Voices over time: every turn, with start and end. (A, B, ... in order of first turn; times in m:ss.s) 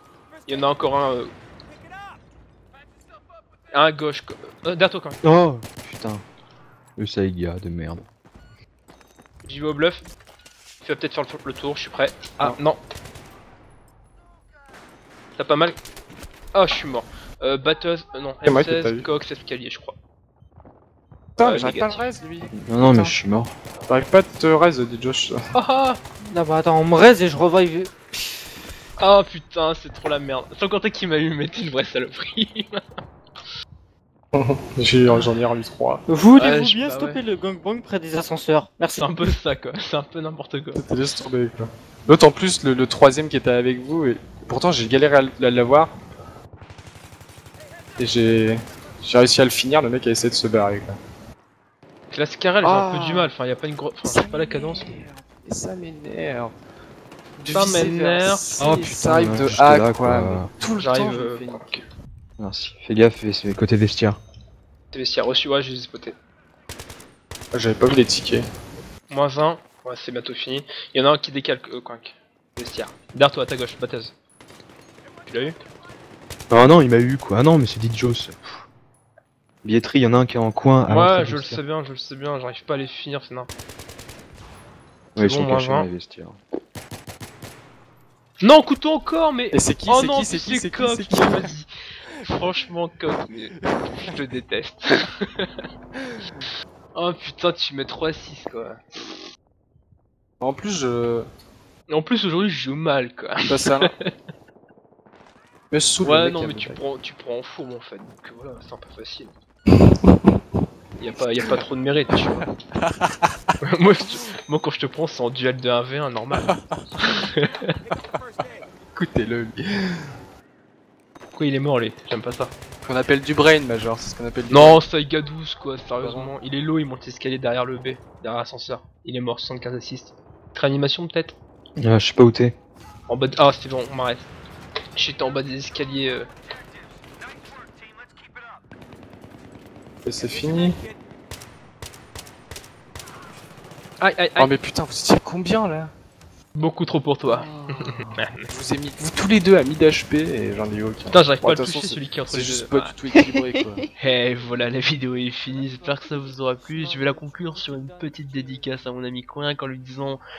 0:00.5-0:01.3 A
0:03.7-0:05.2 A
0:05.2-0:06.2 B
0:07.0-0:08.1 B
0:09.4-0:10.1 A
0:10.8-0:12.8 A
0:15.4-0:15.8 A
0:16.5-0:20.0 A
0:18.4-0:19.1 C
0:21.4-0:23.2 C
0:21.4-0:22.1 A
0:22.5-0:23.5 B
0:23.9-0:25.4 C
0:25.6-0:26.0 A
0:26.3-0:27.9 D
0:29.0-0:32.8 A
0:34.3-0:36.0 C
0:36.1-0:39.2 D
0:36.4-0:37.2 A
0:39.0-0:40.8 A
0:40.8-0:46.0 C
0:48.0-0:51.0 C
0:52.1-0:55.0 A
0:52.6-0:53.3 C
0:54.0-0:56.5 C
0:57.4-1:01.8 C
0:57.5-0:58.7 A
0:58.6-1:00.5 B
1:00.8-1:01.8 A
1:02.4-1:04.2 B
1:04.9-1:06.2 A
1:07.5-1:08.4 C
1:09.1-1:14.1 A
1:15.3-1:15.6 A
1:16.5-1:18.6 B
1:19.6-1:21.6 B
1:20.9-1:23.5 A
1:25.2-1:26.4 B
1:25.2-1:25.9 A
1:28.4-1:31.7 A
1:29.5-1:31.5 C
1:32.2-1:35.5 A
1:36.9-1:39.2 A
1:40.4-1:41.3 C
1:41.9-1:44.1 A
1:43.4-1:43.9 C
1:45.7-1:46.8 C
1:46.0-1:49.3 A
1:49.7-1:50.4 C
1:51.0-1:52.5 A
1:52.3-1:53.2 C
1:53.6-1:56.5 A
1:56.4-1:56.8 C
1:57.0-1:57.5 A
1:58.9-1:59.6 C
2:01.3-2:02.5 A
2:02.9-2:04.8 C
2:04.5-2:11.4 A
2:06.0-2:06.3 C
2:11.8-2:12.6 B
2:13.1-2:14.3 A
2:15.0-2:16.3 A
2:20.1-2:20.8 C
2:24.0-2:24.5 A
2:24.4-2:25.9 C
2:26.6-2:28.5 A
2:27.3-2:33.9 C
2:31.1-2:32.9 A
2:34.0-2:40.2 A